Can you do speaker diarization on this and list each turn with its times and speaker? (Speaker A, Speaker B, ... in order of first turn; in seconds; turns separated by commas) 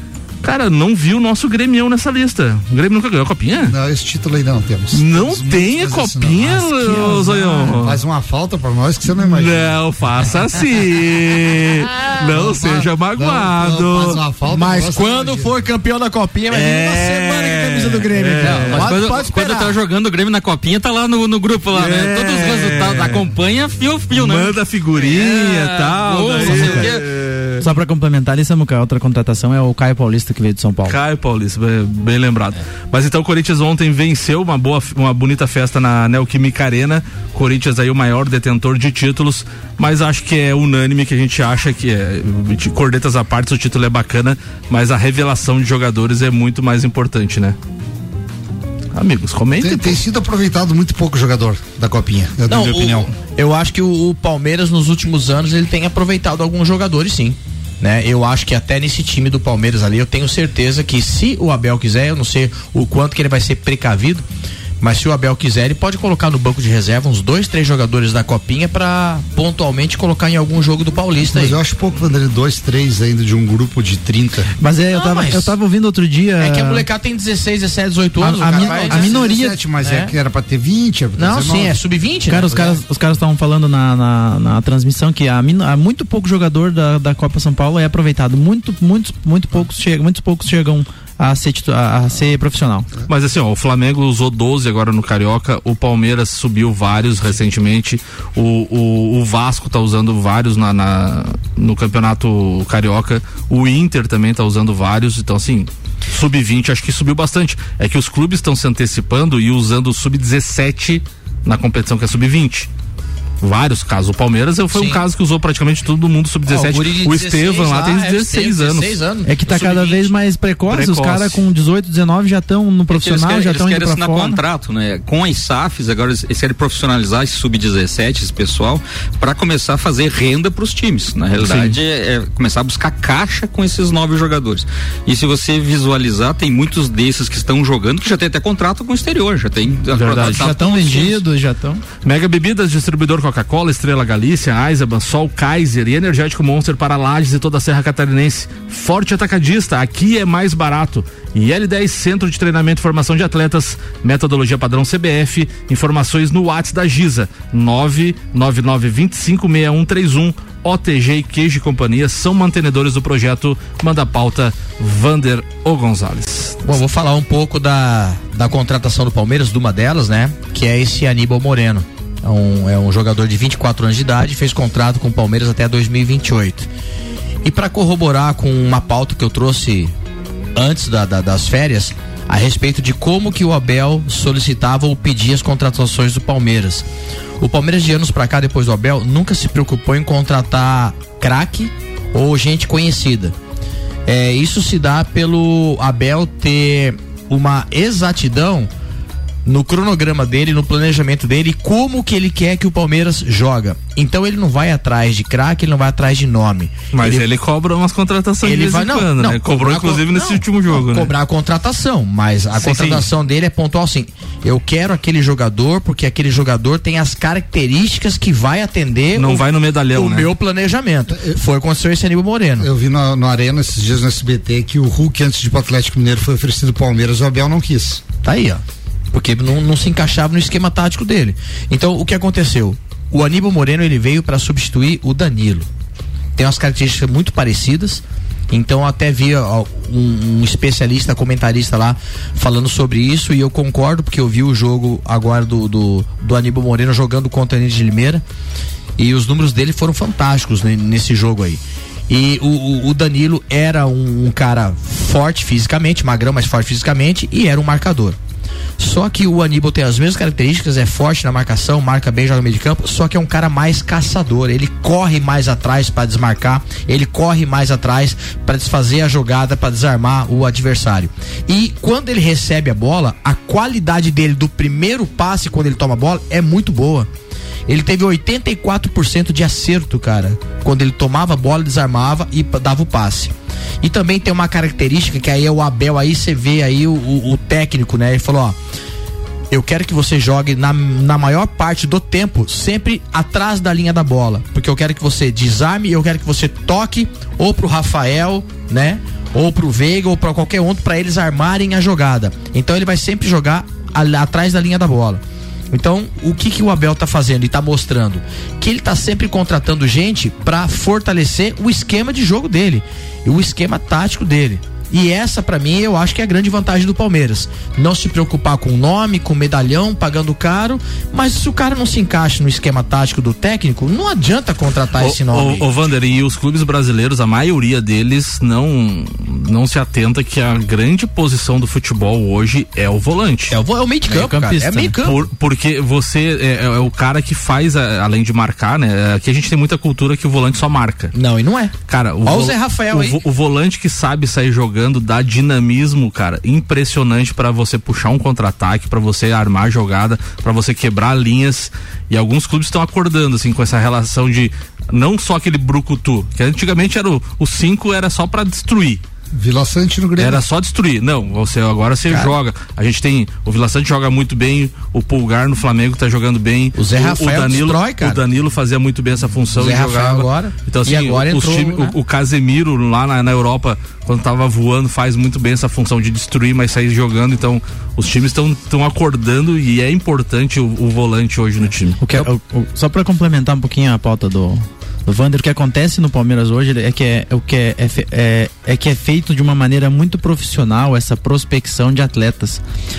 Speaker A: 0.4-3.8, Speaker B: 3.7-9.8, Speaker A: 4.9-8.0, Speaker C: 7.2-7.7, Speaker A: 9.2-14.2, Speaker B: 12.2-15.5, Speaker D: 14.5-19.8, Speaker A: 16.5-18.9, Speaker E: 18.4-27.1, Speaker A: 21.7-23.3, Speaker A: 24.1-27.6, Speaker C: 26.4-26.9, Speaker C: 27.6-31.0, Speaker A: 30.9-47.6, Speaker A: 48.9-50.0, Speaker B: 49.6-53.1, Speaker D: 52.5-64.2, Speaker D: 64.8-71.6, Speaker B: 71.3-74.5, Speaker C: 74.6-76.9, Speaker D: 74.9-75.6, Speaker D: 76.4-79.3, Speaker C: 78.2-79.6, Speaker B: 78.5-81.8, Speaker D: 79.8-80.1, Speaker D: 81.2-82.8, Speaker C: 82.3-92.9, Speaker A: 93.1-112.7, Speaker A: 113.4-119.0, Speaker D: 114.7-115.0, Speaker D: 116.5-120.1, Speaker C: 119.3-124.4, Speaker A: 120.7-121.4, Speaker E: 122.9-141.2, Speaker A: 131.4-131.8, Speaker A: 139.9-140.5, Speaker C: 140.2-141.8, Speaker A: 142.0-166.7, Speaker D: 166.7-176.7, Speaker D: 177.4-179.9, Speaker D: 180.6-186.9, Speaker D: 187.4-193.4, Speaker D: 194.1-198.7, Speaker D: 199.4-207.2, Speaker A: 206.9-211.1, Speaker D: 208.4-222.7, Speaker A: 212.6-213.1, Speaker A: 219.2-220.3, Speaker B: 221.1-221.4, Speaker B: 222.6-228.0, Speaker D: 228.2-235.7, Speaker D: 236.4-248.2, Speaker D: 249.0-258.2, Speaker D: 258.8-277.1, Speaker D: 277.7-288.6, Speaker D: 289.5-325.7, Speaker A: 324.9-333.6, Speaker D: 333.5-335.2, Speaker C: 334.1-334.9, Speaker A: 335.0-341.1, Speaker D: 341.1-343.2, Speaker A: 341.9-359.0, Speaker B: 359.3-360.4, Speaker A: 360.2-382.0, Speaker D: 362.1-362.4, Speaker D: 366.8-368.2, Speaker D: 369.6-372.0, Speaker C: 382.0-392.6